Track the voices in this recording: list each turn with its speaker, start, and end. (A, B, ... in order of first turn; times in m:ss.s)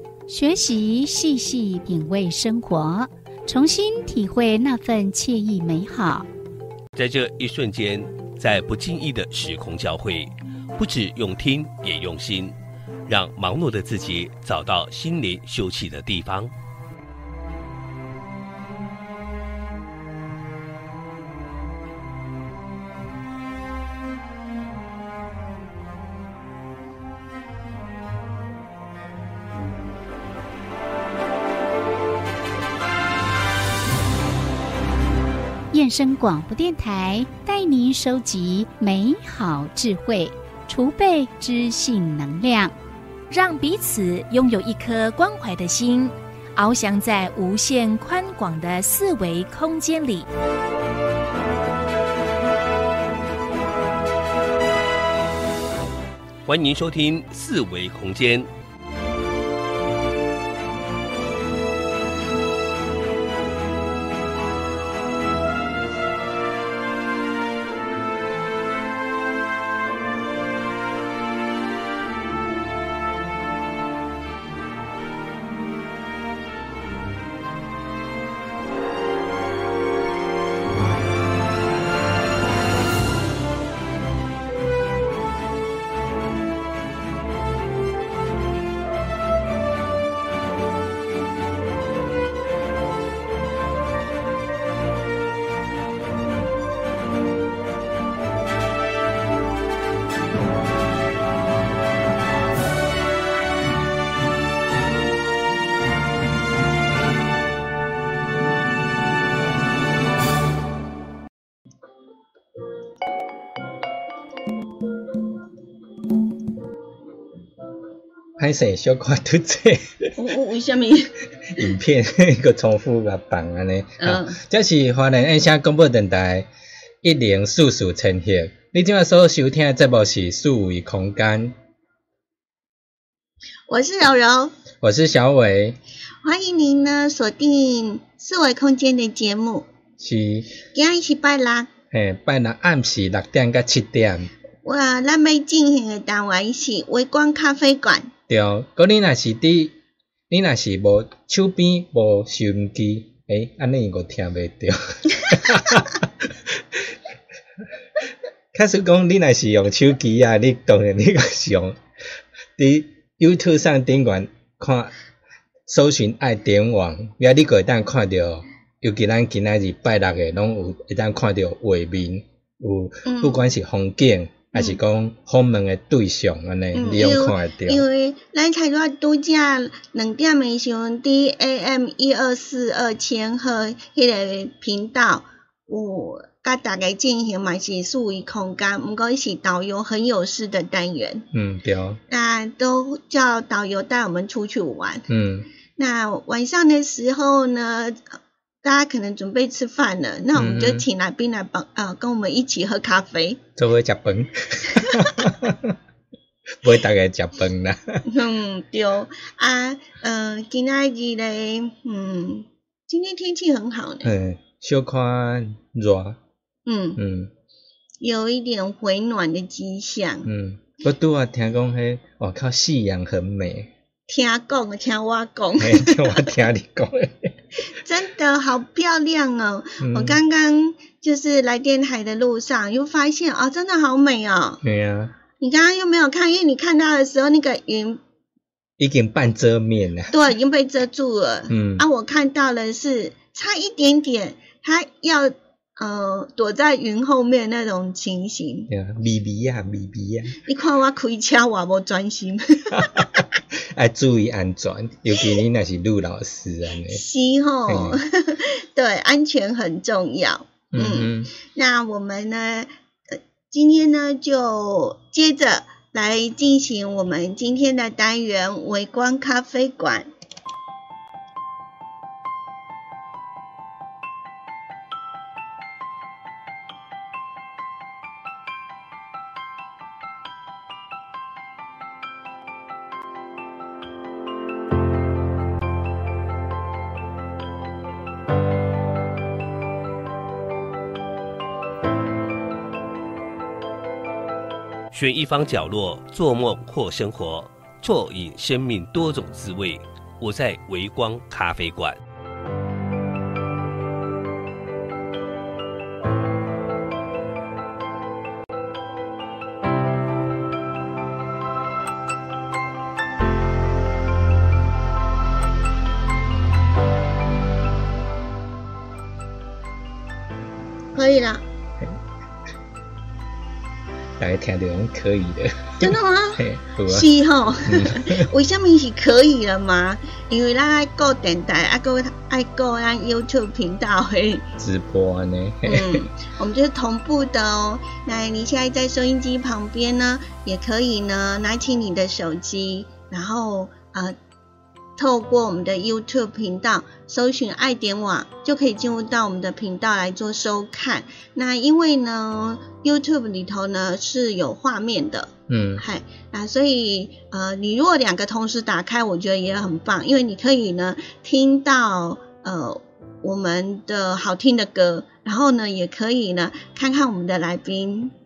0:00.3-0:06.3 A
0:06.9-0:16.5 B
0:35.7-0:42.7 A
0:43.3-0:50.2 C
0:56.4-0:58.5 B
1:58.4-2:00.1 D
2:00.2-2:01.6 E
2:01.5-2:06.5 D
2:04.0-2:04.4 E
2:07.0-2:11.6 D
2:13.7-2:14.5 E
2:14.8-2:15.8 D
2:16.2-2:19.7 E
2:20.0-2:20.6 D
2:20.7-2:21.7 E
2:21.9-2:24.3 D
2:24.6-2:28.1 E
2:28.3-2:29.8 D
2:30.3-2:37.0 D
2:38.5-2:41.8 D
2:42.6-2:44.9 D
2:45.7-2:57.8 D
2:53.0-2:53.4 E
2:56.7-3:11.3 E
3:11.3-3:12.0 D
3:12.1-3:15.1 E
3:15.1-3:15.5 D
3:15.8-3:23.4 E
3:20.3-3:20.9 D
3:23.6-3:25.8 D
3:26.6-3:28.1 D
3:28.1-3:34.1 E
3:34.0-3:36.2 D
3:36.6-3:37.0 E
3:37.0-3:37.3 D
3:38.0-3:40.3 E
3:40.2-3:43.7 D
3:44.1-3:46.3 E
3:45.6-3:47.4 D
3:47.7-3:54.6 E
3:49.8-3:50.2 D
3:54.6-3:55.1 D
3:55.4-3:58.0 E
3:58.8-4:00.1 D
4:00.1-4:08.7 E
4:01.5-4:01.8 D
4:08.7-4:10.4 D
4:10.4-4:13.2 E
4:12.8-4:17.0 D
4:16.9-4:30.1 E
4:17.7-4:18.0 D
4:20.7-4:21.3 D
4:54.9-5:02.0 B
5:20.9-5:21.4 E
5:24.2-5:27.1 D
5:25.8-5:34.4 E
5:27.6-5:28.2 D
5:34.6-5:36.0 D
5:35.7-5:44.2 E
5:45.0-6:08.1 E
5:55.5-5:55.8 D